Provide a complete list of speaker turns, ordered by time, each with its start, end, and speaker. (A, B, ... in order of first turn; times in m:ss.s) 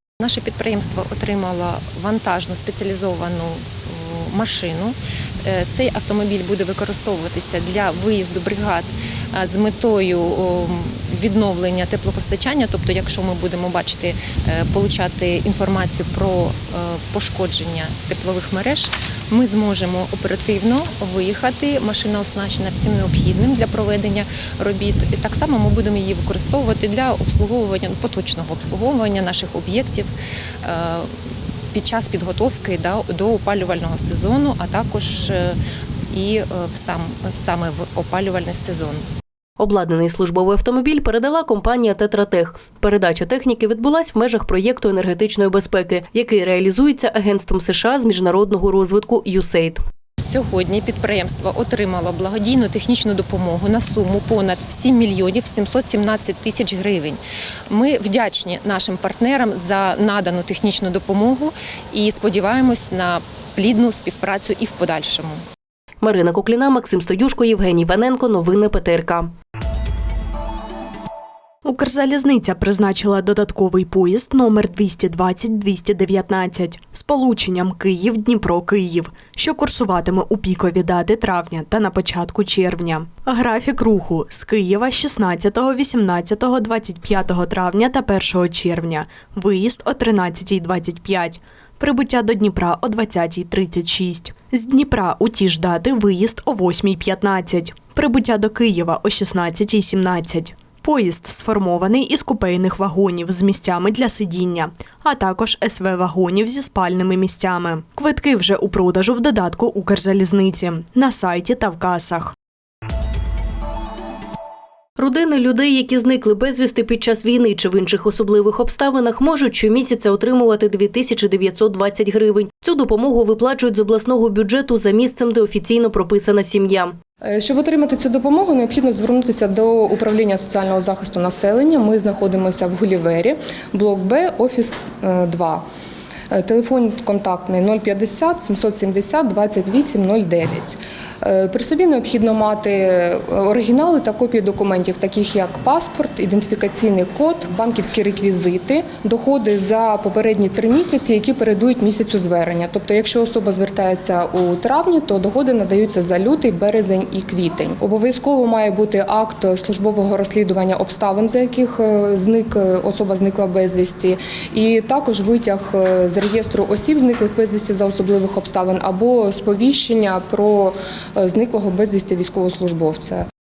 0:00.2-0:31.2 A
0:31.7-0:35.6 A
0:36.1-0:39.1 A
0:39.6-0:49.8 B
0:50.2-1:05.4 A
1:06.0-1:09.3 B
1:11.6-1:52.3 C
1:55.0-2:06.9 B
2:07.2-2:15.6 D
2:16.3-2:53.2 D